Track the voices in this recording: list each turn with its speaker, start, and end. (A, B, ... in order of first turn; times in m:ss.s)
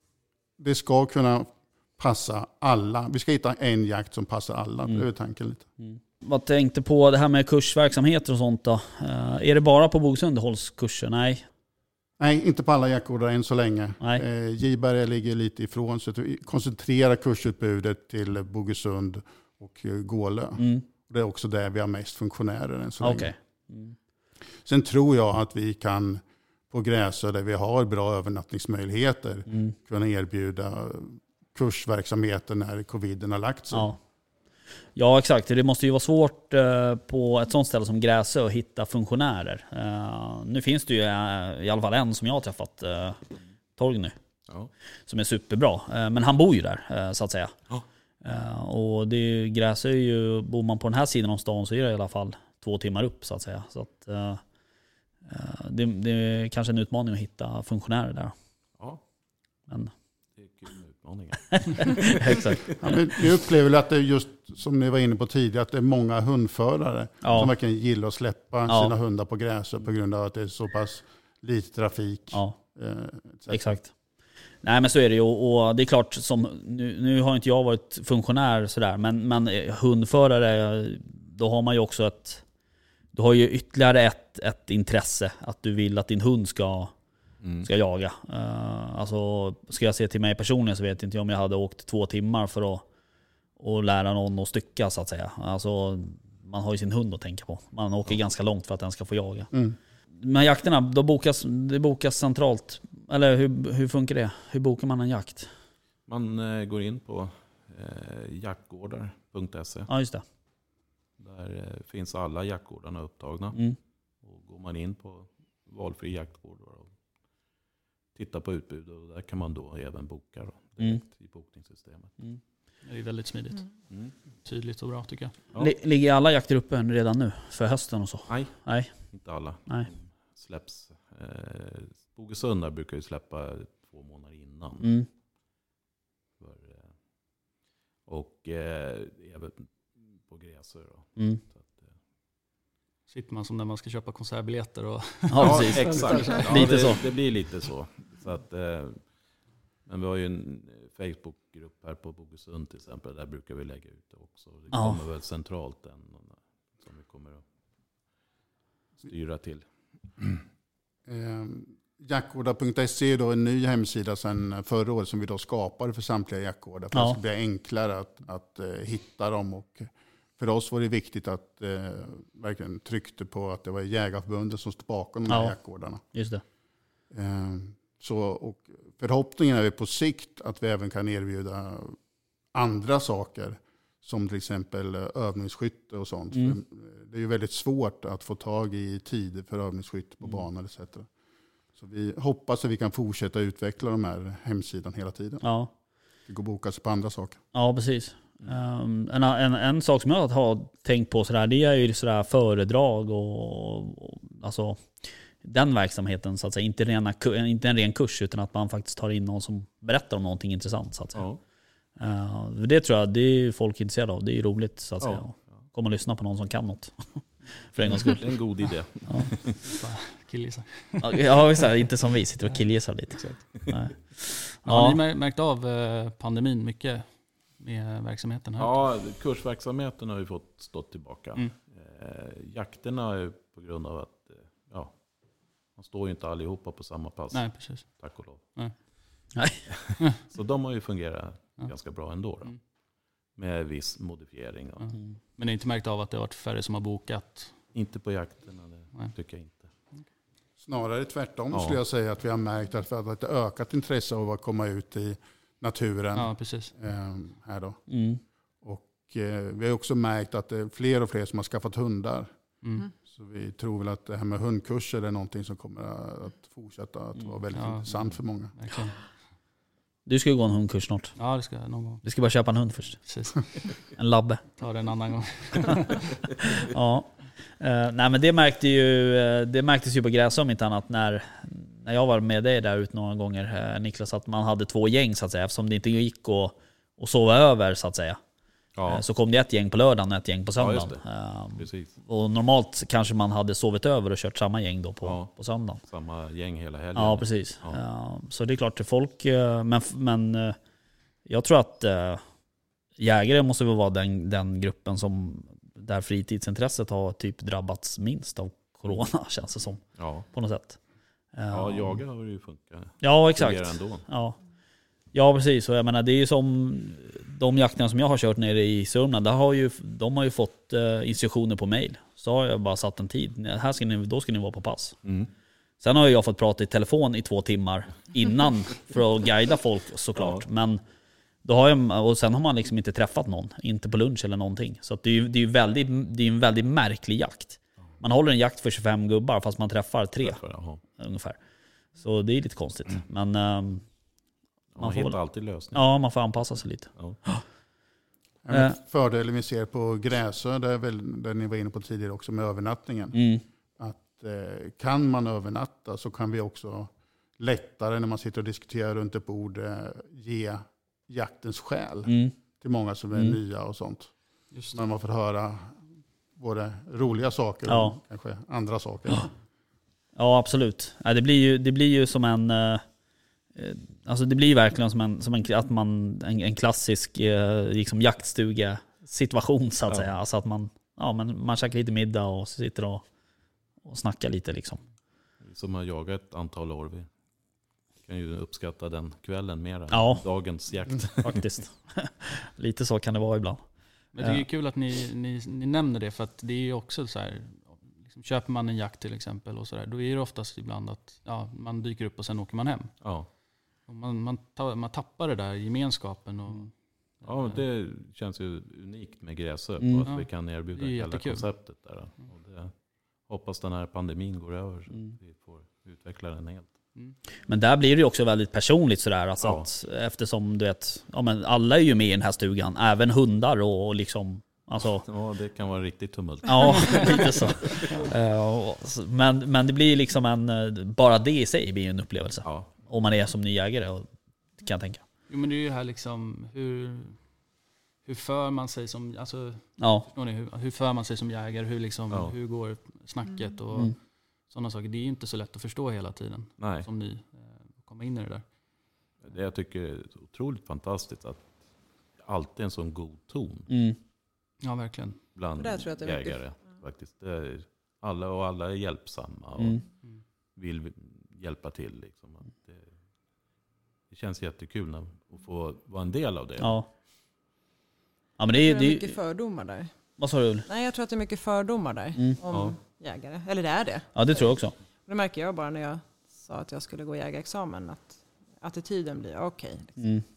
0:00.6-0:05.7 A
0:05.8-0:11.5 B
0:12.2-0:23.3 A
0:20.6-0:20.8 B
0:23.0-0:24.0 B
0:24.6-0:33.9 A
0:33.7-0:34.0 B
0:35.0-0:44.2 B
0:45.1-0:47.6 B
0:48.2-0:54.4 B
0:55.3-0:58.3 B
1:00.4-1:02.7 C
1:01.5-1:02.7 B
1:02.8-1:13.8 A
1:07.2-1:07.5 B
1:08.7-1:08.9 B
1:13.5-1:13.9 B
1:14.6-1:22.4 B
1:23.1-1:26.9 B
1:27.4-1:27.7 C
1:27.6-1:32.8 B
1:33.6-1:39.5 B
1:40.1-1:45.5 B
1:46.1-1:49.9 C
1:49.9-1:50.2 B
1:51.2-1:53.6 C
1:54.2-1:56.9 C
1:58.2-2:02.1 C
2:02.8-2:03.7 D
2:04.4-2:05.4 D
2:05.6-2:09.1 B
2:08.3-2:14.9 C
2:14.8-2:15.1 B
2:16.4-2:16.9 C
2:18.1-2:21.9 C
2:21.2-2:21.4 B
2:23.1-2:26.9 D
2:25.3-2:27.0 B
2:25.4-2:29.0 C
2:29.9-2:37.4 C
2:34.7-2:35.0 B
2:39.0-2:39.6 C
2:41.1-2:49.9 A
2:46.9-2:47.2 B
2:50.4-2:56.0 A
2:55.3-2:55.6 B
2:56.1-2:56.4 B
2:57.1-3:02.0 A
3:02.5-3:11.1 A
3:06.3-3:06.6 B
3:11.8-3:15.5 A
3:15.4-3:15.7 B
3:16.3-3:17.4 A
3:17.5-3:31.2 B
3:31.2-3:31.4 C
3:32.0-3:37.2 B
3:35.0-3:35.4 C
3:37.7-3:38.3 B
3:37.9-3:39.6 C
3:39.6-3:41.2 D
3:41.0-3:45.0 B
3:43.2-3:43.9 C
3:44.6-3:48.9 D
3:48.6-3:55.0 C
3:55.8-3:58.6 C
3:57.3-3:58.0 D
3:59.4-3:59.6 B
3:59.8-4:02.5 C
4:03.4-4:05.0 C
4:04.8-4:07.6 D
4:07.7-4:09.7 C
4:10.6-4:17.8 A
4:11.5-4:11.8 C
4:16.2-4:16.7 D
4:17.9-4:18.2 B
4:18.6-4:22.3 A
4:22.6-4:22.9 D
4:23.0-4:28.5 A
4:27.5-4:28.0 D
4:28.5-4:29.1 D
4:30.1-4:31.2 B
4:31.2-4:32.0 D
4:32.0-4:33.0 B
4:33.0-4:33.4 D
4:33.9-4:34.4 B
4:34.6-4:36.0 D
4:36.6-4:48.2 B
4:48.8-4:49.0 C
4:48.9-4:55.8 B
4:50.6-4:51.0 C
4:51.6-4:51.9 C
4:55.0-4:55.3 C
4:55.9-4:57.8 C
4:57.0-5:00.6 B
5:01.3-5:02.2 B
5:03.0-5:10.8 B
5:10.0-5:10.3 C
5:11.4-5:12.0 B
5:11.5-5:14.0 C
5:13.0-5:14.4 B
5:15.1-5:25.0 B
5:25.8-5:30.8 B
5:30.2-5:30.4 C
5:31.4-5:41.4 B
5:40.2-5:40.8 C
5:42.0-5:43.8 B
5:44.8-5:45.8 C
5:44.8-5:45.2 B
5:45.7-5:47.4 B
5:48.4-5:53.2 A
5:53.1-5:53.4 B
5:53.8-6:04.1 A
6:02.1-6:02.3 B
6:04.5-6:04.8 D
6:04.7-6:05.8 A
6:06.4-6:09.3 A
6:07.7-6:08.0 B
6:10.2-6:12.8 B
6:13.6-6:23.0 B
6:23.8-6:24.8 B
6:25.4-6:27.1 C
6:28.0-6:31.4 C
6:29.9-6:30.2 B
6:31.2-6:33.6 B
6:34.1-6:43.0 D
6:43.0-6:43.3 C
6:43.8-6:47.6 D
6:47.2-6:56.7 C
6:49.8-6:50.1 B
6:50.1-6:51.5 D
6:57.5-7:05.1 B
6:59.4-6:59.7 C
7:05.0-7:08.0 C
7:06.5-7:14.1 B
7:12.4-7:12.7 C
7:14.6-7:15.0 B
7:15.3-7:17.2 D
7:18.0-7:28.5 D
7:19.8-7:20.1 B
7:26.6-7:26.9 C
7:29.2-7:31.5 C
7:32.2-7:33.7 C
7:33.7-7:34.0 B
7:34.6-7:35.2 D
7:35.4-7:39.8 C
7:35.6-7:36.7 E
7:39.6-7:39.8 B
7:40.6-7:42.9 C
7:44.1-7:46.8 C
7:46.6-7:46.9 B
7:48.4-7:49.2 B
7:48.6-7:49.9 E
7:50.2-7:50.7 B
7:50.7-7:54.3 E
7:52.5-7:52.8 C
7:54.2-7:54.8 B
7:55.1-8:00.2 E
8:00.0-8:00.2 B